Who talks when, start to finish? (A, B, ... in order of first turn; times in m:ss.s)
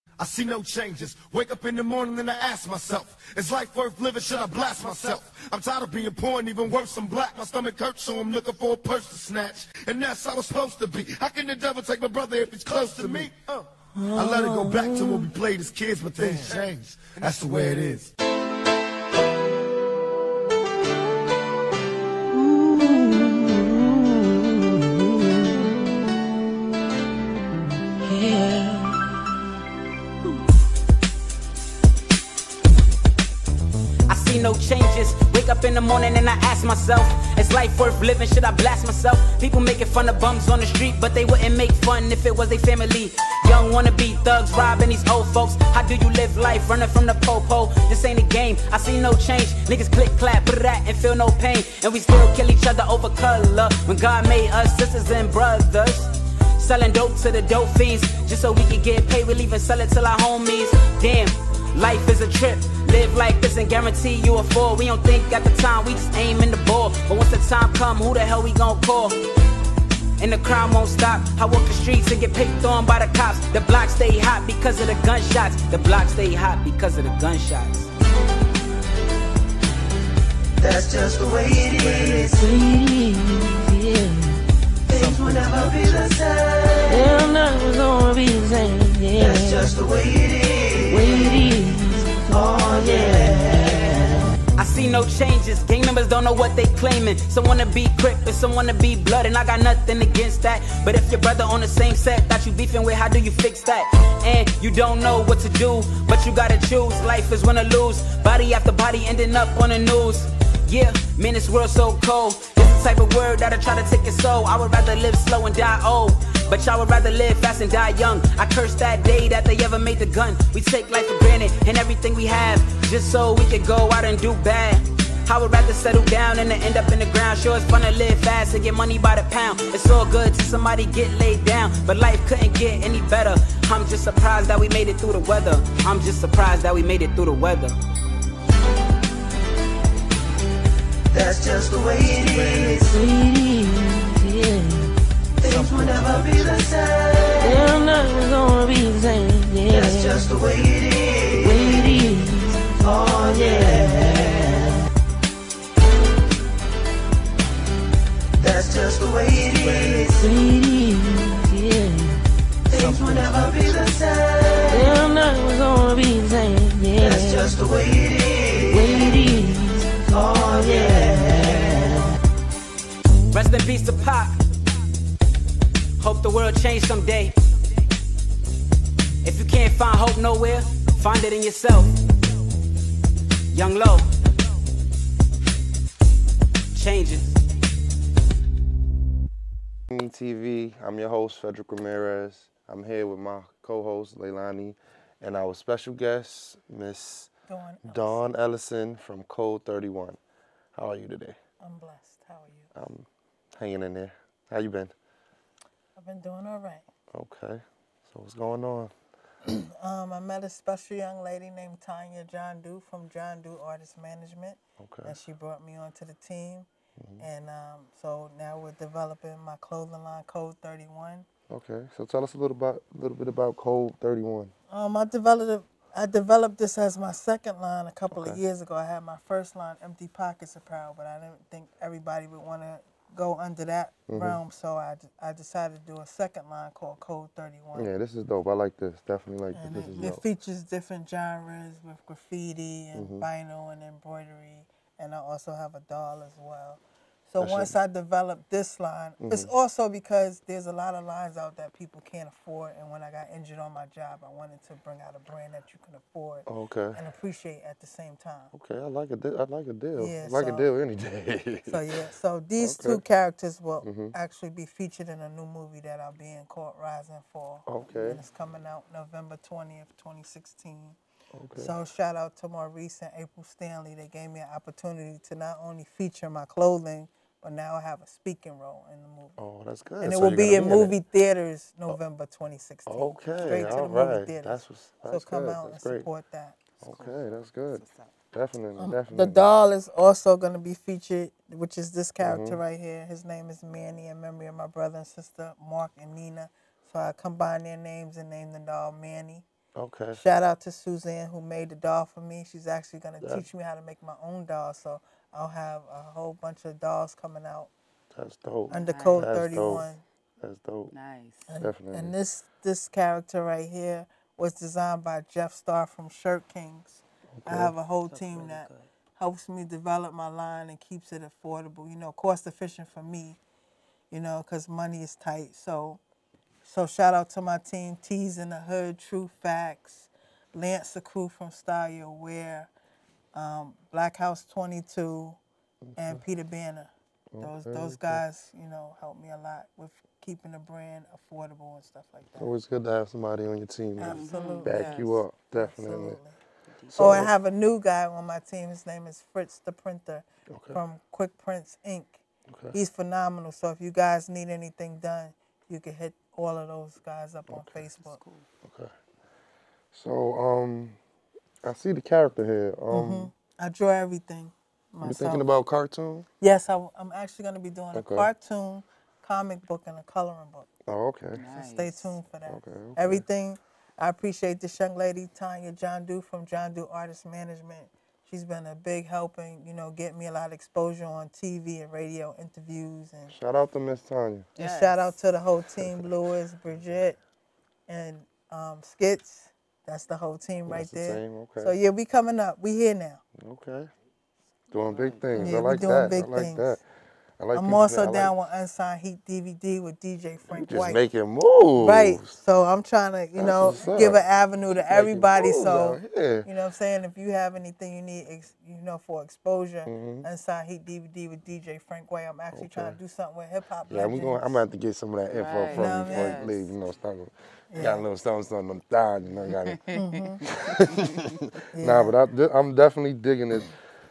0:00.2-0:18.1 A
0:14.0-0:15.3 B
0:22.3-0:25.6 B
0:28.0-0:29.3 B
0:34.1-1:09.2 C
1:10.2-1:17.9 C
1:20.6-1:22.4 D
1:22.3-1:24.4 B
1:24.9-1:27.2 D
1:26.9-1:29.7 B
1:29.2-1:31.3 D
1:30.9-1:32.2 B
1:32.3-1:34.2 D
1:34.6-2:17.8 C
2:21.1-2:23.0 D
2:22.9-2:24.9 B
2:25.4-2:27.7 D
2:27.4-2:30.2 B
2:29.7-2:31.8 D
2:31.4-2:32.5 B
2:32.8-2:34.6 D
2:34.1-2:34.4 B
2:38.4-2:40.3 D
2:40.2-2:42.2 B
2:42.7-2:45.0 D
2:44.7-2:47.4 B
2:47.0-2:49.1 D
2:48.7-2:49.9 B
2:50.1-2:52.0 D
2:53.3-2:54.4 C
2:56.0-2:57.4 C
2:59.2-3:01.9 C
3:03.5-3:04.1 C
3:06.7-3:07.4 C
3:09.9-3:17.3 E
3:17.5-3:18.3 F
3:17.8-3:20.2 E
3:20.8-3:21.4 E
3:21.6-3:22.7 F
3:22.7-3:24.9 E
3:26.0-3:26.9 F
3:27.1-3:28.9 E
3:29.7-3:36.7 F
3:34.8-3:35.2 E
3:37.0-3:37.3 E
3:37.2-3:41.3 F
3:41.5-3:44.5 E
3:44.7-3:57.9 F
3:48.1-3:48.4 E
3:54.1-3:54.4 E
3:57.7-4:00.2 E
3:59.5-4:18.5 F
4:03.0-4:03.2 E
4:07.4-4:07.7 E
4:09.2-4:09.5 E
4:16.5-4:17.0 E
4:18.5-4:22.0 E
4:20.0-4:20.7 F
4:21.7-4:31.0 F
4:22.6-4:23.0 E
4:23.8-4:24.1 E
4:27.7-4:28.2 E
4:31.3-4:31.8 E
4:31.6-4:39.4 F
4:39.4-4:41.0 E
4:40.0-4:46.6 F
4:42.9-4:46.1 E
4:46.8-4:48.2 G
4:46.8-4:49.5 E
4:48.8-4:59.4 F
4:52.2-4:52.6 E
4:59.8-5:00.2 E
5:00.1-5:07.7 F
5:03.2-5:03.5 E
5:08.1-5:10.9 E
5:08.7-5:10.0 F
5:08.8-5:09.3 G
5:10.9-5:11.6 G
5:11.5-5:23.4 F
5:11.6-5:12.1 E
5:17.4-5:17.7 E
5:18.0-5:18.9 G
5:24.1-5:26.0 F
5:26.6-5:32.7 F
5:33.3-5:35.4 F
5:35.8-5:36.2 E
5:36.0-5:42.5 F
5:37.3-5:38.2 E
5:42.4-5:46.2 E
5:44.0-5:46.4 F
5:44.0-5:45.2 G
5:46.7-5:47.3 G
5:46.9-5:47.3 E
5:47.0-5:52.2 F
5:50.5-5:50.8 E
5:52.5-5:52.8 E
5:52.7-5:58.2 F
5:57.5-5:57.8 E
5:57.8-5:58.5 G
5:58.6-5:58.9 E
5:59.9-6:01.0 E
6:01.6-6:03.3 E
6:02.9-6:05.5 F
6:05.0-6:06.3 E
6:06.4-6:10.7 F
6:07.9-6:08.3 E
6:10.9-6:11.4 E
6:11.4-6:12.2 G
6:11.5-6:23.3 F
6:12.5-6:13.2 E
6:23.3-6:24.5 E
6:24.6-6:25.2 G
6:24.6-6:27.2 F
6:25.8-6:26.1 E
6:27.9-6:33.2 F
6:30.7-6:31.8 E
6:33.4-6:33.9 E
6:34.7-6:36.8 E
6:34.9-6:35.6 G
6:35.3-6:36.8 F
6:37.4-6:38.4 E
6:37.5-6:41.0 F
6:40.5-6:42.4 E
6:41.8-6:54.6 F
6:43.4-6:46.5 E
6:49.9-6:50.3 E
6:52.5-6:53.0 E
6:53.9-6:59.8 E
6:55.3-6:56.7 G
6:55.7-6:56.6 F
6:57.7-6:58.0 F
6:59.5-7:01.2 G
6:59.9-7:00.4 F
7:00.6-7:03.8 E
7:01.8-7:02.2 F